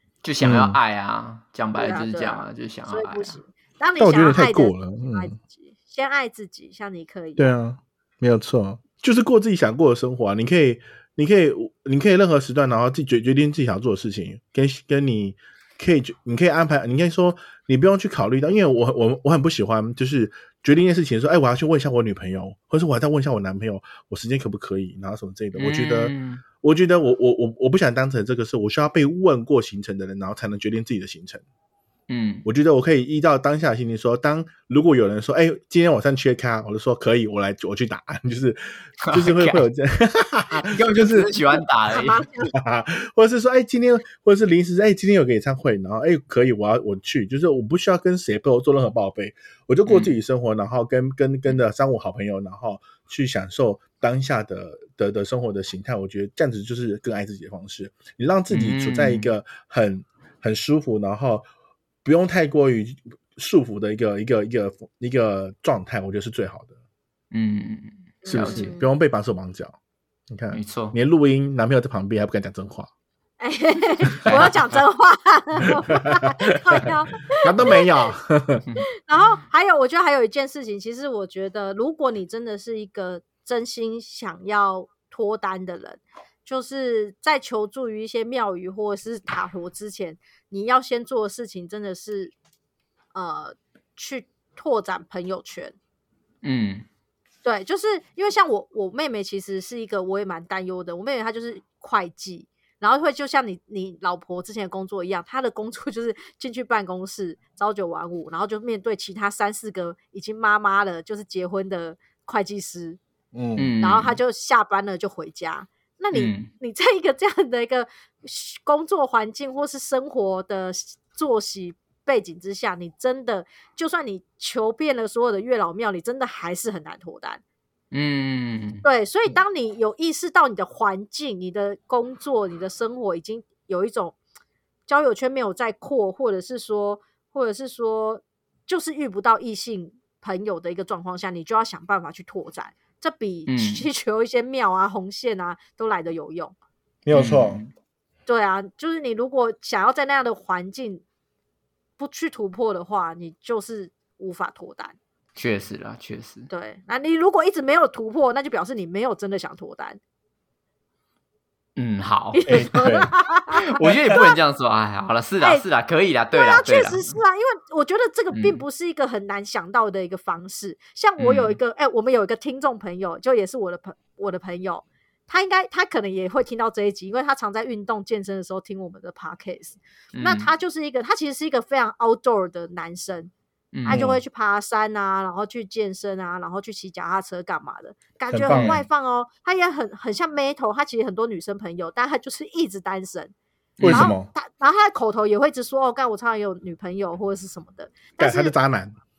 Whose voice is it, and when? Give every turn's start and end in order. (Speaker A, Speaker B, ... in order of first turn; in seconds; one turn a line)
Speaker A: 0.2-3.4
Speaker B: 0.4-0.8
Speaker C: 1.7-7.5
Speaker B: 4.0-5.3
Speaker B: 7.4-31.4
Speaker A: 25.6-26.4
Speaker A: 32.1-32.4
Speaker B: 32.4-41.3
Speaker A: 39.0-39.6
Speaker A: 40.6-42.2
Speaker C: 41.9-42.5
Speaker B: 42.5-61.5
Speaker A: 49.9-50.1
Speaker A: 58.5-59.3
Speaker B: 62.0-66.7
Speaker A: 67.3-68.7
Speaker C: 68.2-68.9
Speaker B: 68.3-69.8
Speaker B: 70.3-72.9
Speaker A: 70.5-70.9
Speaker C: 73.4-78.1
Speaker A: 74.2-74.6
Speaker B: 77.4-78.6
Speaker C: 79.1-92.3
Speaker C: 93.1-95.8
Speaker A: 96.4-96.8
Speaker C: 97.4-113.0
Speaker B: 113.3-113.7
Speaker A: 113.6-114.2
Speaker C: 113.8-127.4
Speaker A: 116.1-116.5
Speaker A: 127.9-128.8
Speaker C: 128.8-134.2
Speaker C: 134.9-146.5
Speaker A: 143.5-143.8
Speaker B: 147.0-147.6
Speaker A: 147.1-147.7
Speaker C: 148.3-151.0
Speaker C: 152.0-154.9
Speaker A: 155.3-156.5
Speaker C: 156.5-160.0
Speaker A: 161.8-162.8
Speaker C: 162.3-164.3
Speaker B: 162.4-163.1
Speaker A: 163.6-167.1
Speaker C: 165.4-165.6
Speaker C: 166.3-183.3
Speaker A: 168.3-168.6
Speaker A: 171.2-171.6
Speaker A: 180.1-180.5
Speaker A: 183.7-184.0
Speaker C: 183.8-193.3
Speaker B: 183.8-184.2
Speaker B: 188.3-188.8
Speaker A: 188.5-188.8
Speaker A: 193.8-194.1
Speaker B: 193.8-194.3
Speaker C: 193.8-198.5
Speaker B: 198.2-198.9